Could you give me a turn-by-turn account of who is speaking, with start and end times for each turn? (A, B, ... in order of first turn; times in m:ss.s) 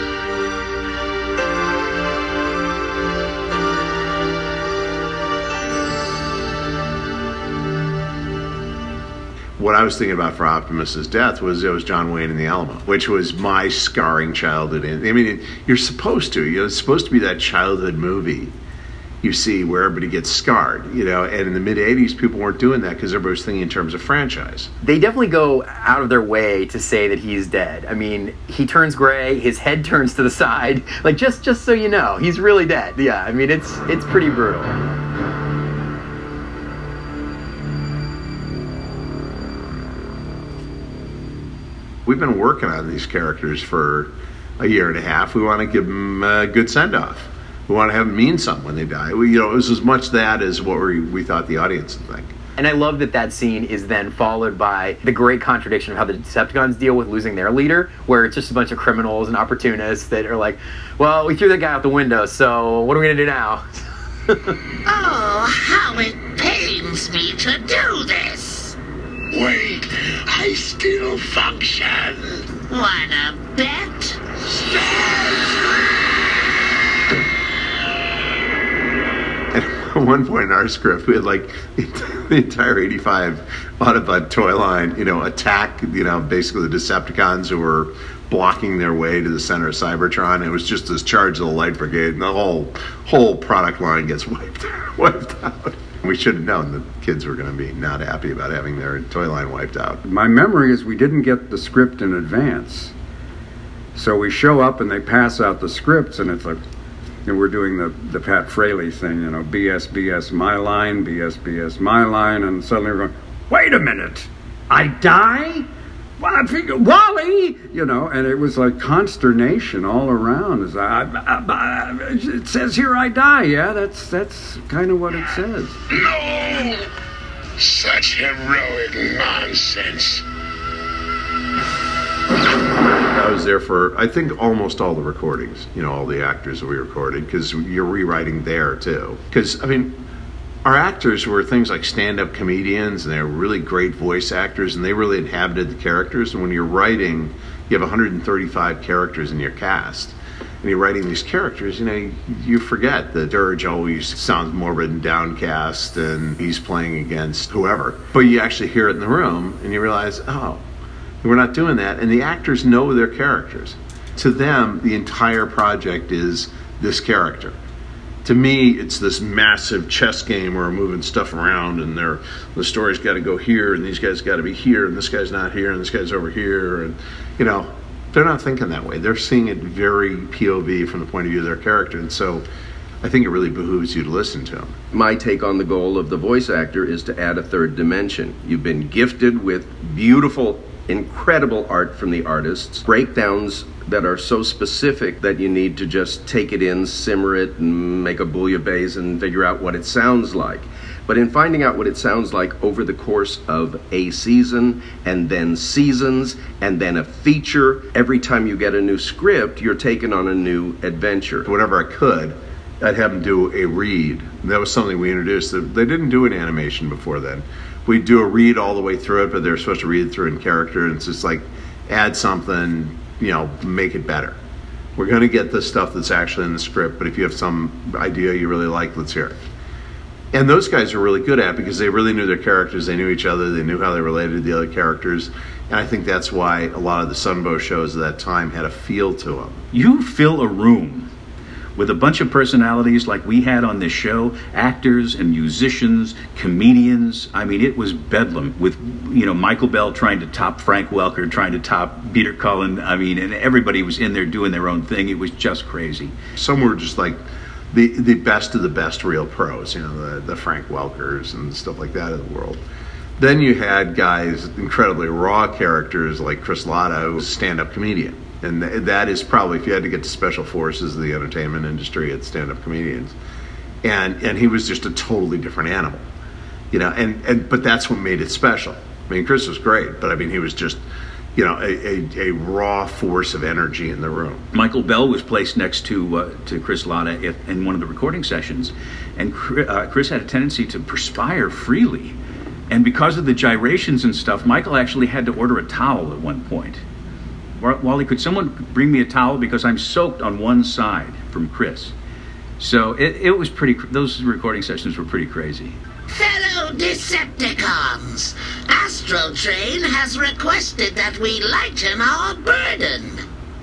0:09.6-0:18.5 A
0:19.2-0:24.7 A
0:24.8-0:34.8 B
0:42.0-0:52.3 A
0:52.6-1:03.6 B
1:04.8-1:08.8 C
1:09.3-1:12.4 D
1:12.6-1:14.2 C
1:14.6-1:15.5 D
1:19.5-1:40.0 A
1:40.0-1:42.9 E
1:43.9-1:46.6 E
1:47.2-1:55.6 E
1:56.2-2:05.8 E
2:05.9-2:06.8 D
2:07.6-2:10.2 D
2:13.1-2:20.0 A
2:20.6-2:40.6 A
2:41.2-2:47.6 A
2:48.2-3:02.4 A
3:03.0-3:04.8 A
3:04.9-3:31.5 F
3:31.4-3:44.4 A
3:45.0-3:49.3 A
3:50.3-3:59.6 A
3:59.7-4:01.1 G
4:01.8-4:16.1 G
4:16.4-4:17.2 A
4:17.7-4:22.6 A
4:23.2-4:33.1 A
4:33.8-4:36.0 A
4:36.7-4:40.8 A
4:41.3-4:44.4 A
4:44.5-4:52.2 G
4:52.7-4:56.8 G
4:57.6-5:01.9 G
5:02.6-5:05.8 G
5:06.1-5:13.2 C